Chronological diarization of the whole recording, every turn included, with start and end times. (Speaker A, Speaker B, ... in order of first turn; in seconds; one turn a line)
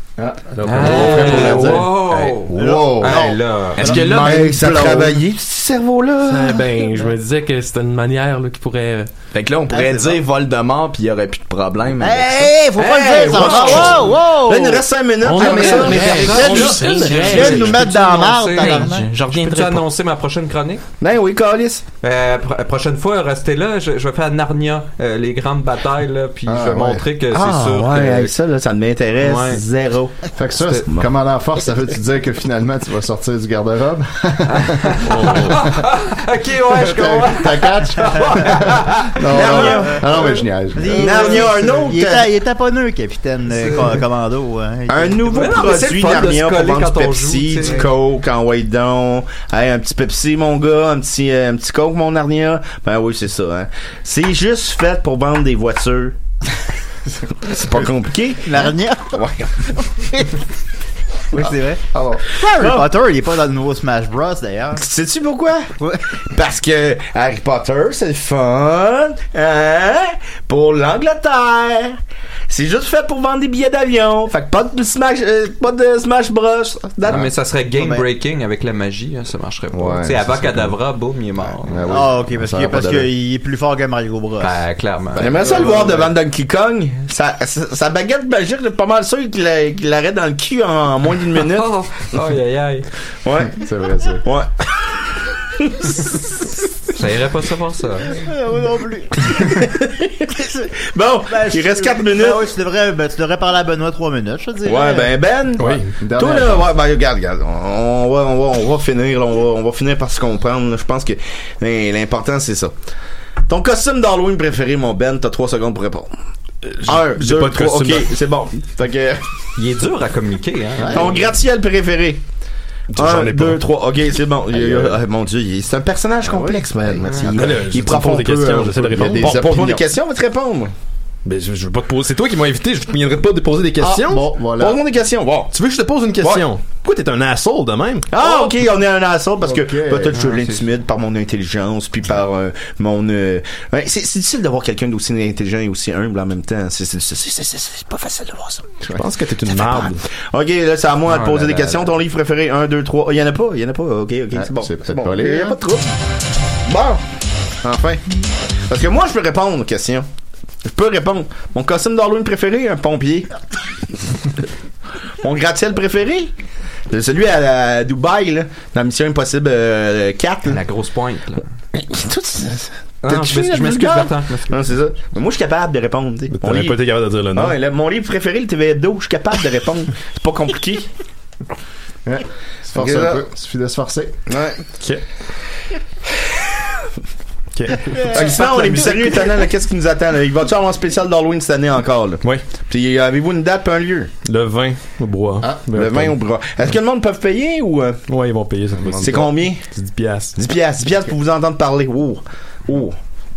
Speaker A: 0.2-5.1
Speaker B: 0.6-3.9
Speaker C: 0.8-1.9
Speaker D: 1.2-1.7
Speaker E: 2.5-3.4
Speaker F: 3.8-5.1
Speaker C: 3.8-6.7
Speaker D: 6.2-9.1
Speaker F: 9.3-12.4
Speaker E: 9.7-10.2
Speaker E: 12.0-14.8
Speaker C: 12.8-18.0
Speaker B: 12.8-14.1
Speaker D: 15.2-17.8
Speaker B: 15.3-20.8
Speaker E: 15.9-19.1
Speaker F: 18.6-19.9
Speaker C: 21.0-21.8
Speaker B: 22.0-28.3
Speaker A: 26.5-27.1
Speaker C: 27.3-30.2
Speaker B: 29.2-29.6
Speaker A: 30.4-35.7
Speaker B: 30.6-30.9
Speaker B: 34.5-39.2
Speaker G: 35.1-35.6
Speaker A: 36.7-41.5
Speaker C: 39.2-40.3
Speaker E: 39.6-45.7
Speaker C: 40.9-42.3
Speaker B: 43.6-43.9
Speaker C: 44.9-56.2
Speaker B: 45.3-47.8
Speaker E: 47.6-47.9
Speaker C: 57.4-60.0
Speaker E: 58.4-59.2
Speaker E: 61.3-61.8
Speaker A: 61.9-62.3
Speaker C: 62.4-62.9
Speaker E: 62.4-64.8
Speaker C: 64.8-65.7
Speaker C: 66.3-72.0
Speaker C: 72.5-77.3
Speaker B: 77.1-81.9
Speaker A: 79.7-80.8
Speaker A: 81.6-83.1
Speaker E: 81.9-84.6
Speaker B: 84.4-85.5
Speaker A: 85.2-86.1
Speaker C: 85.2-91.7
Speaker B: 91.4-92.9
Speaker C: 93.2-93.6
Speaker A: 93.5-94.3
Speaker C: 94.2-94.5
Speaker C: 95.6-96.3
Speaker B: 97.0-98.1
Speaker E: 98.1-99.7
Speaker C: 99.5-102.4
Speaker E: 101.3-105.1
Speaker C: 104.7-112.7
Speaker G: 105.6-105.9
Speaker A: 105.9-106.7
Speaker C: 113.5-116.1
Speaker C: 116.8-119.2
Speaker G: 116.9-118.1
Speaker B: 119.6-121.0
Speaker A: 120.8-121.2
Speaker C: 120.8-122.2
Speaker G: 122.9-123.6
Speaker C: 122.9-130.7
Speaker A: 126.2-127.4
Speaker G: 127.2-129.7
Speaker A: 128.9-129.8
Speaker G: 131.2-134.3
Speaker A: 133.8-134.8
Speaker C: 134.5-135.5
Speaker G: 135.5-138.1
Speaker C: 136.2-136.5
Speaker C: 138.1-148.8
Speaker A: 139.4-140.2
Speaker B: 140.2-140.6
Speaker G: 148.9-150.0
Speaker C: 149.4-155.9
Speaker B: 151.1-151.7
Speaker A: 154.3-155.6
Speaker C: 156.7-157.0
Speaker C: 157.6-158.0
Speaker C: 158.7-160.1
Speaker C: 160.7-163.3
Speaker C: 165.2-166.3
Speaker C: 166.9-170.6
Speaker B: 170.5-171.4
Speaker C: 171.8-180.9
Speaker B: 173.0-174.6
Speaker G: 176.3-177.6
Speaker A: 182.1-184.2
Speaker C: 182.7-183.2
Speaker C: 184.3-184.6
Speaker G: 187.6-189.0
Speaker C: 187.9-194.1
Speaker G: 194.2-196.2
Speaker C: 195.6-198.0
Speaker G: 198.1-200.3
Speaker A: 198.8-199.2
Speaker C: 199.0-199.7
Speaker C: 200.4-203.0